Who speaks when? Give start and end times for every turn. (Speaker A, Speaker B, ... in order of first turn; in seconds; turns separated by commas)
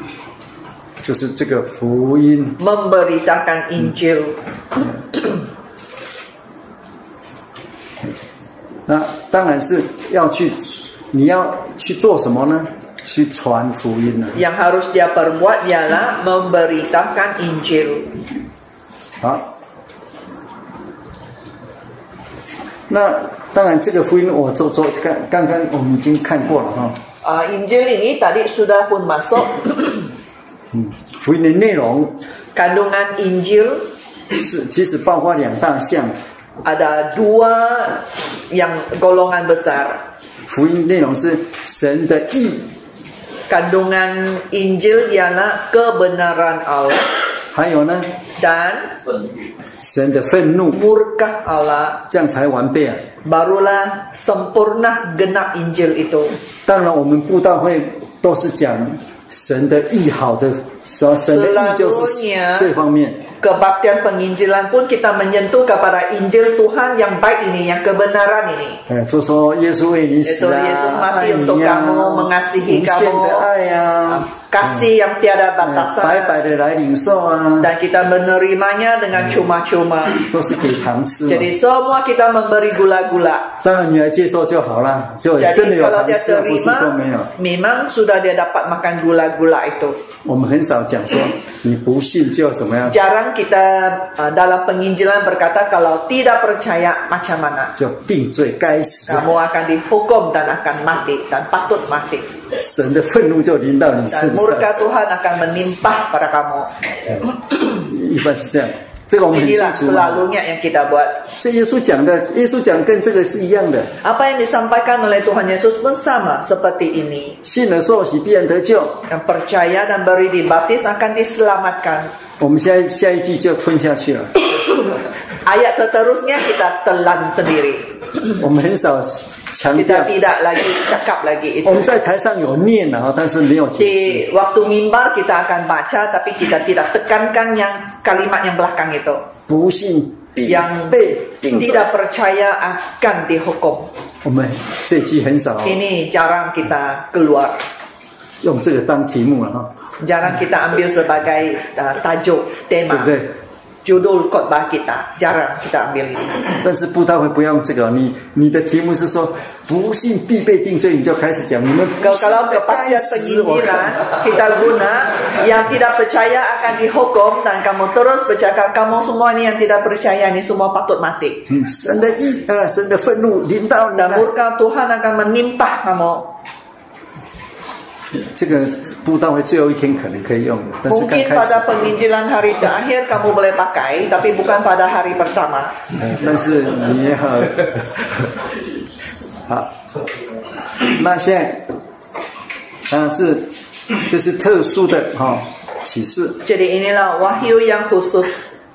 Speaker A: 1.0-2.6, Speaker B: 2.6-4.4, Speaker A: 8.9-14.4, Speaker B: 14.3-18.1, Speaker A: 19.2-19.5, Speaker A: 22.9-27.0, Speaker B: 27.2-30.1, Speaker A: 30.7-32.2, Speaker B: 32.5-33.9, Speaker A: 34.3-36.1, Speaker B: 36.6-40.0, Speaker A: 40.5-42.7, Speaker B: 43.5-47.1, Speaker A: 47.5-48.1, Speaker B: 48.4-48.9, Speaker A: 49.8-50.8, Speaker B: 50.7-52.0, Speaker A: 52.1-53.0, Speaker B: 53.2-56.4, Speaker A: 56.6-63.2, Speaker B: 61.3-62.7, Speaker B: 63.4-68.8, Speaker A: 68.9-74.8, Speaker B: 70.2-73.5, Speaker B: 74.1-76.4, Speaker A: 75.6-77.7, Speaker B: 77.6-80.2, Speaker A: 80.2-81.5, Speaker B: 81.3-83.5, Speaker A: 83.6-87.3, Speaker B: 85.4-90.0, Speaker A: 90.2-93.0, Speaker B: 92.9-97.7, Speaker A: 97.8-99.3, Speaker B: 99.1-102.3, Speaker A: 102.5-104.8, Speaker B: 104.1-106.7, Speaker A: 107.1-110.2, Speaker B: 109.3-111.2, Speaker A: 111.4-113.9, Speaker B: 114.0-117.4, Speaker A: 117.4-119.0, Speaker B: 119.1-122.1, Speaker A: 122.4-124.3, Speaker B: 125.4-128.1, Speaker A: 128.4-130.1, Speaker B: 129.8-131.9, Speaker A: 131.6-134.2, Speaker B: 133.8-139.2, Speaker A: 139.5-141.9, Speaker B: 140.4-141.0, Speaker B: 141.5-143.9, Speaker A: 144.2-145.8, Speaker B: 145.6-147.6, Speaker A: 148.4-149.7, Speaker B: 150.0-153.1, Speaker A: 152.9-153.3, Speaker B: 153.8-156.4, Speaker A: 156.6-164.2, Speaker B: 162.0-171.4, Speaker A: 171.5-174.3, Speaker B: 173.9-176.3, Speaker A: 178.3-181.8, Speaker B: 180.9-185.8, Speaker A: 186.0-188.2, Speaker A: 189.5-189.7, Speaker A: 190.8-191.6, Speaker A: 192.9-193.5, Speaker A: 194.1-196.4, Speaker B: 196.4-198.4